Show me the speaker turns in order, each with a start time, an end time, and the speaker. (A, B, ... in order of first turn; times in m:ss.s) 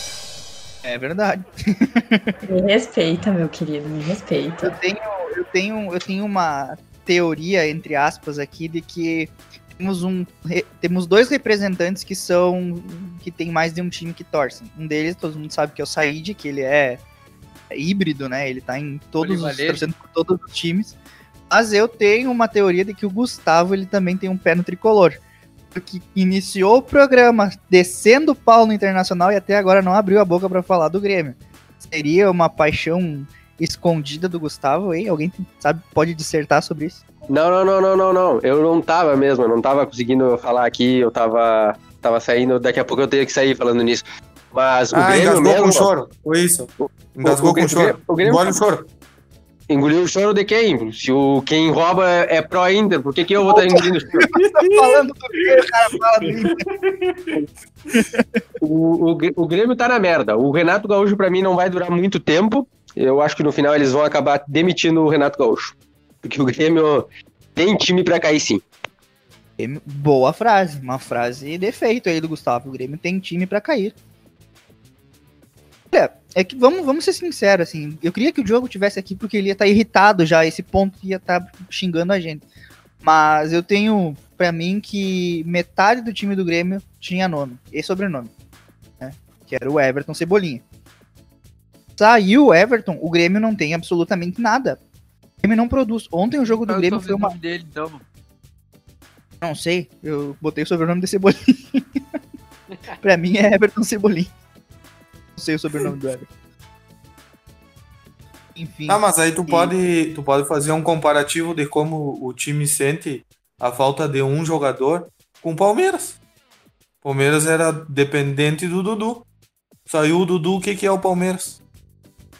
0:00.8-0:02.4 A
0:02.4-0:04.8 B
0:04.6-0:17.0 A
0:17.7-0:21.0 A
0:19.2-0:19.9 C
0:21.5-0:25.2 A
0:25.7-0:37.0 A
0:37.3-0:45.9 D
0:44.9-0:48.9 E
0:46.8-0:48.6 D
0:49.7-0:54.2 D
0:53.5-0:56.6 A
0:54.2-0:55.0 E
0:56.2-0:57.4 E
0:57.9-0:58.3 A
0:58.6-1:08.6 D
1:09.6-1:14.0 A
1:15.9-1:22.4 A
1:23.0-1:28.3 A
1:29.0-1:30.6 A
1:32.0-1:34.8 A
1:35.4-1:37.4 A
1:36.5-1:38.0 C
1:39.4-1:41.8 A
1:43.0-1:44.3 A
1:45.4-1:46.3 A
1:48.6-1:49.7 A
1:48.9-1:56.2 E
1:57.0-1:59.2 E
1:59.9-2:01.6 E